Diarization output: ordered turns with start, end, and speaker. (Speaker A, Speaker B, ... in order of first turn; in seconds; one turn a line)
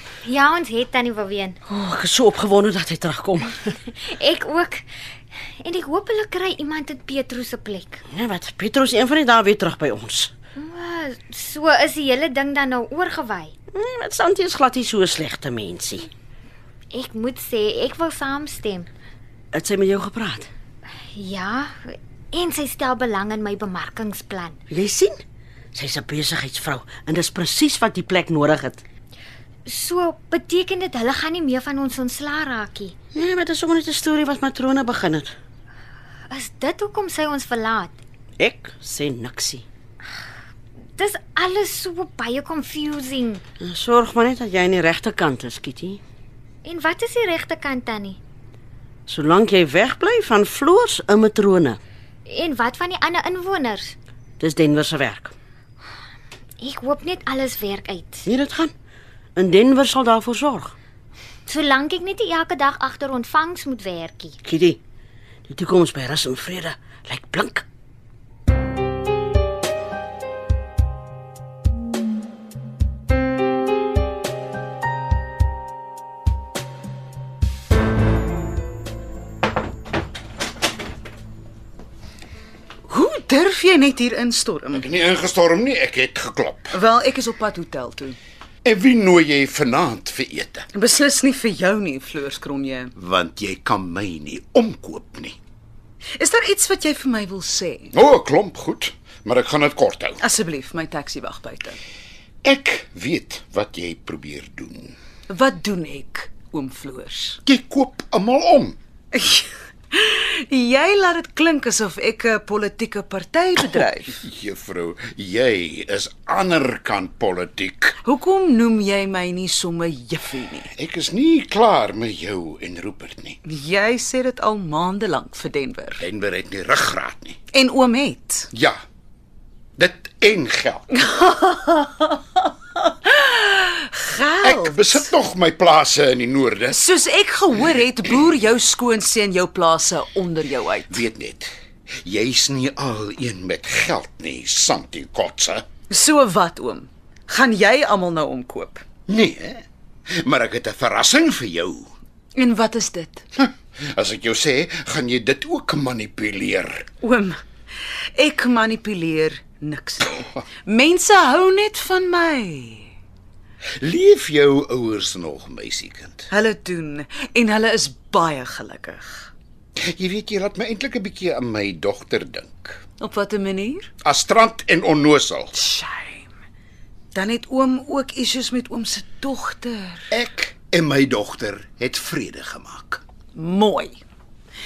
Speaker A: 0.2-1.6
Speaker B: 1.6-3.8
Speaker A: 3.9-4.9
Speaker A: 5.5-8.0
Speaker B: 8.1-10.3
Speaker A: 10.6-13.5
Speaker B: 13.7-16.1
Speaker A: 16.9-18.9
Speaker B: 19.5-20.5
Speaker A: 21.1-24.6
Speaker B: 24.7-25.2
Speaker B: 25.7-28.8
Speaker A: 29.6-32.9
Speaker B: 33.1-35.3
Speaker A: 36.3-38.0
Speaker B: 38.4-39.6
Speaker A: 40.9-43.4
Speaker B: 43.6-46.0
Speaker A: 46.6-48.2
Speaker B: 49.1-51.8
Speaker A: 52.2-53.9
Speaker B: 54.4-55.3
Speaker A: 56.6-58.3
Speaker B: 58.2-58.7
Speaker B: 59.4-60.7
Speaker A: 61.5-64.4
Speaker B: 64.4-64.8
Speaker B: 65.5-67.6
Speaker C: 82.9-84.8
Speaker D: 84.7-86.8
Speaker C: 86.7-88.2
Speaker D: 88.6-90.7
Speaker C: 90.7-92.9
Speaker D: 93.0-95.4
Speaker C: 96.2-97.9
Speaker D: 97.9-100.2
Speaker C: 100.2-101.8
Speaker D: 102.4-104.9
Speaker C: 105.3-107.4
Speaker D: 107.4-108.8
Speaker C: 109.1-114.2
Speaker D: 114.2-118.0
Speaker C: 118.0-120.7
Speaker D: 120.7-123.4
Speaker C: 123.4-126.0
Speaker D: 126.0-127.4
Speaker C: 127.5-128.5
Speaker D: 128.5-128.8
Speaker D: 129.8-130.9
Speaker C: 130.9-135.1
Speaker D: 134.4-136.8
Speaker C: 136.7-141.0
Speaker D: 140.9-141.5
Speaker D: 142.0-145.6
Speaker C: 145.9-148.8
Speaker D: 149.1-151.9
Speaker C: 152.3-153.2
Speaker D: 153.4-156.9
Speaker C: 157.0-157.4
Speaker C: 158.1-162.9
Speaker D: 163.8-166.2
Speaker C: 166.3-169.3
Speaker D: 169.9-172.8
Speaker C: 173.0-173.9
Speaker D: 174.0-175.5
Speaker C: 175.6-176.3
Speaker C: 177.1-180.1
Speaker D: 180.1-183.0
Speaker C: 183.3-184.0